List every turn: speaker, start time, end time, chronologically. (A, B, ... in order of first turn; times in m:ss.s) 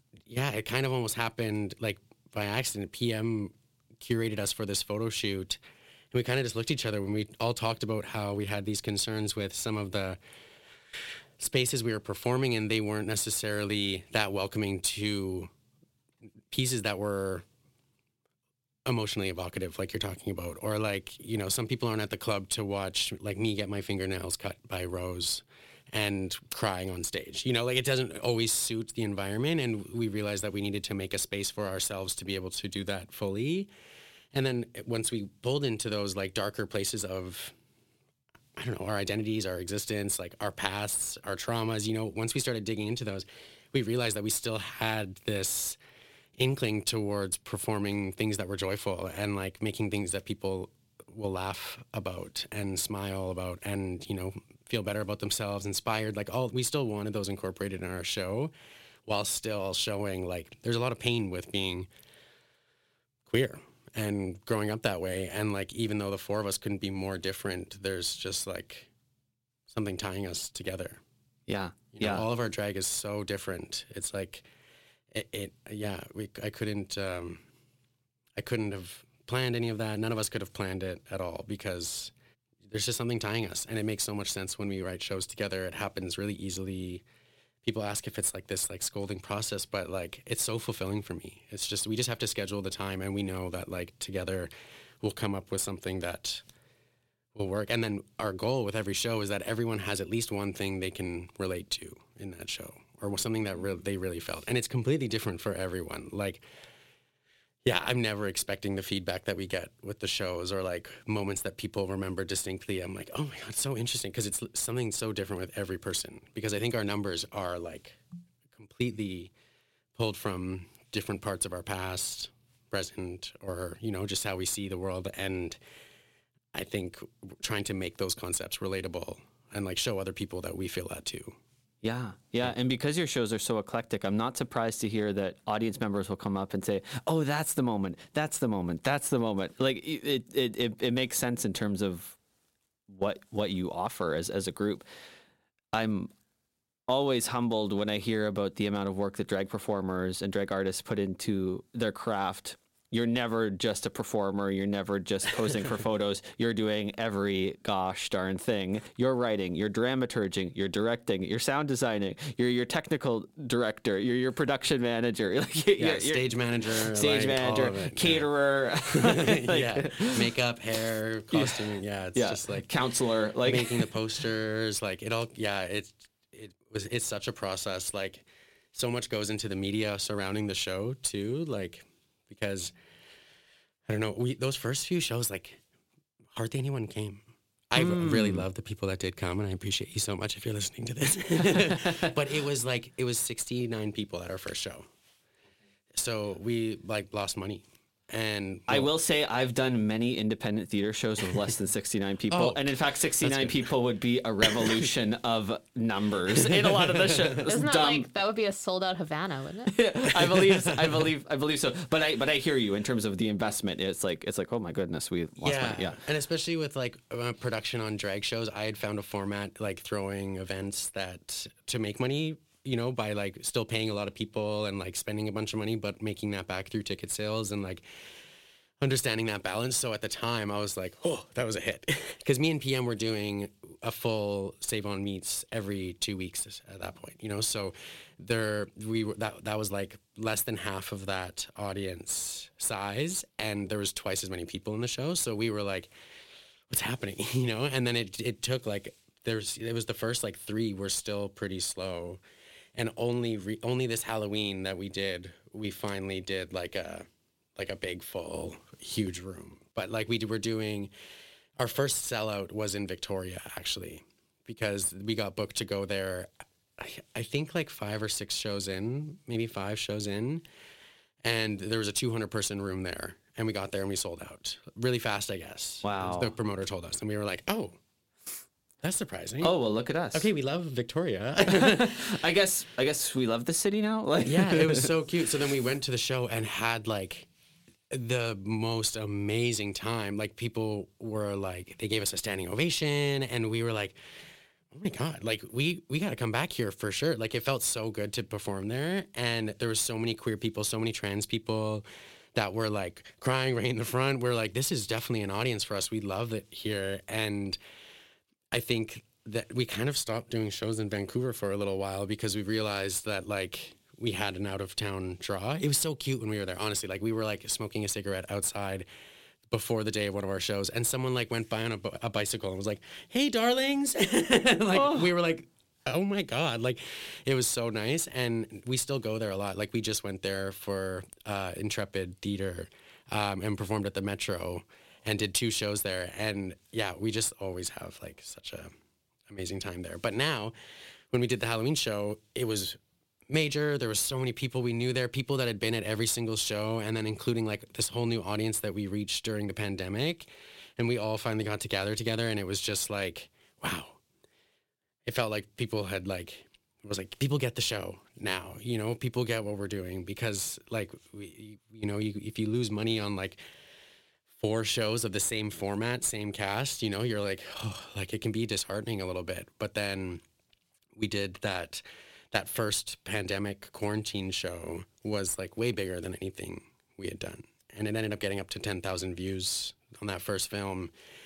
0:00.3-0:05.6 A
0:06.1-0:10.2 A
0:11.4-0:15.5 A
0:16.5-0:17.4 A
0:18.8-0:33.7 A
0:34.3-0:37.6 A
0:38.6-0:45.8 A
0:46.4-0:58.5 A
0:59.1-1:01.9 A
1:03.2-1:08.9 A
1:09.7-1:11.0 A
1:11.5-1:12.2 B
1:11.9-1:14.4 A
1:15.1-1:17.4 A
1:18.4-1:22.1 A
1:22.6-1:27.0 A
1:27.6-1:34.5 A
1:35.0-1:36.4 A
1:37.3-1:46.4 A
1:47.6-1:58.0 A
1:58.5-1:59.3 A
1:59.9-2:05.6 A
2:06.5-2:11.4 A
2:11.8-2:22.2 B
2:22.9-2:24.8 B
2:25.7-2:26.1 B
2:26.9-2:46.2 B
2:45.8-2:48.3 A
2:46.9-2:50.3 B
2:48.9-2:52.7 A
2:51.3-2:53.9 B
2:53.4-3:02.7 A
3:03.8-3:05.6 A
3:06.3-3:14.8 A
3:07.8-3:08.4 B
3:15.9-3:18.9 A
3:18.7-3:28.1 B
3:22.3-3:23.7 A
3:26.4-3:27.4 A
3:27.4-3:29.7 C
3:29.7-3:36.0 B
3:30.2-3:31.1 A
3:35.4-3:47.8 A
3:48.8-4:05.9 A
4:06.7-4:12.2 A
4:12.7-4:20.9 A
4:21.6-4:30.4 A
4:31.2-4:37.8 A
4:35.8-4:36.3 B
4:38.8-4:39.5 A
4:39.4-4:40.2 B
4:40.1-4:42.1 A
4:41.4-4:44.9 B
4:44.2-4:47.3 A
4:47.9-4:54.0 A
4:54.7-5:01.8 A
5:02.3-5:07.6 A
5:08.5-5:18.9 A
5:19.5-5:38.7 A
5:24.7-5:25.1 B
5:39.3-5:40.5 A
5:41.1-5:42.8 A
5:43.3-5:54.0 A
5:55.0-6:03.4 A
6:04.4-6:10.2 A
6:10.9-6:20.9 A